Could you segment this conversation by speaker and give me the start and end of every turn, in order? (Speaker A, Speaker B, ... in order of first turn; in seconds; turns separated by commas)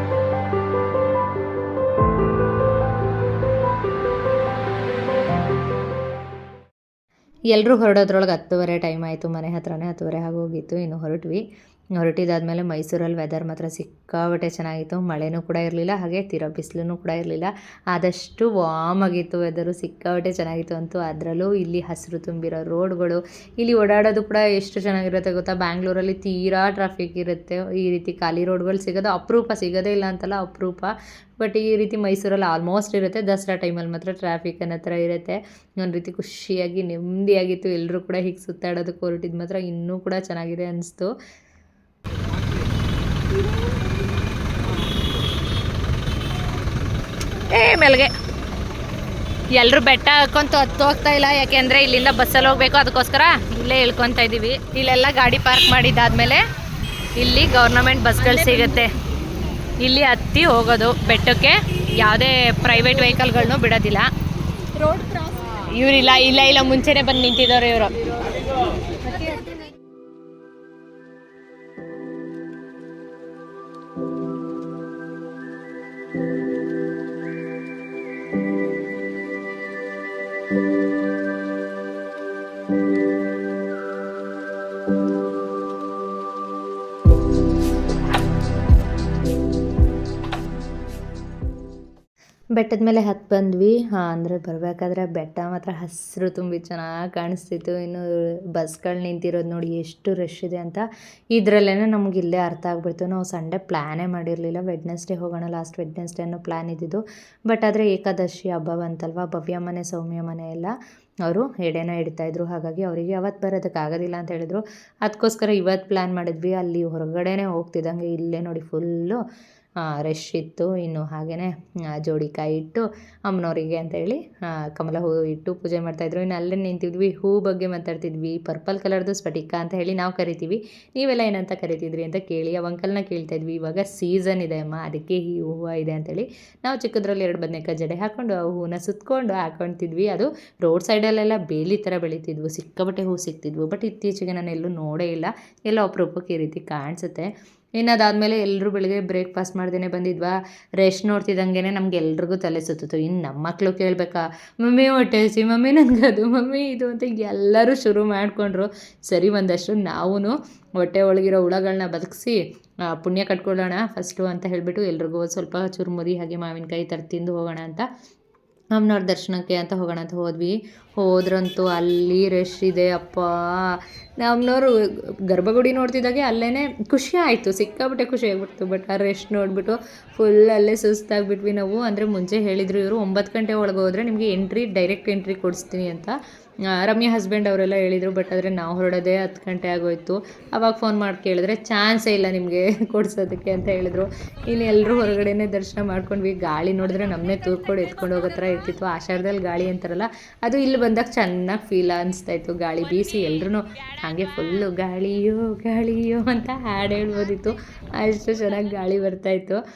Speaker A: 7.5-11.4, Speaker A: 12.0-41.1, Speaker A: 47.5-48.1, Speaker A: 49.5-56.4, Speaker A: 57.1-58.9, Speaker A: 59.8-64.1, Speaker A: 65.6-68.0, Speaker A: 92.5-110.7, Speaker A: 111.2-119.2, Speaker A: 119.8-167.8, Speaker A: 168.7-186.2, Speaker A: 186.7-209.6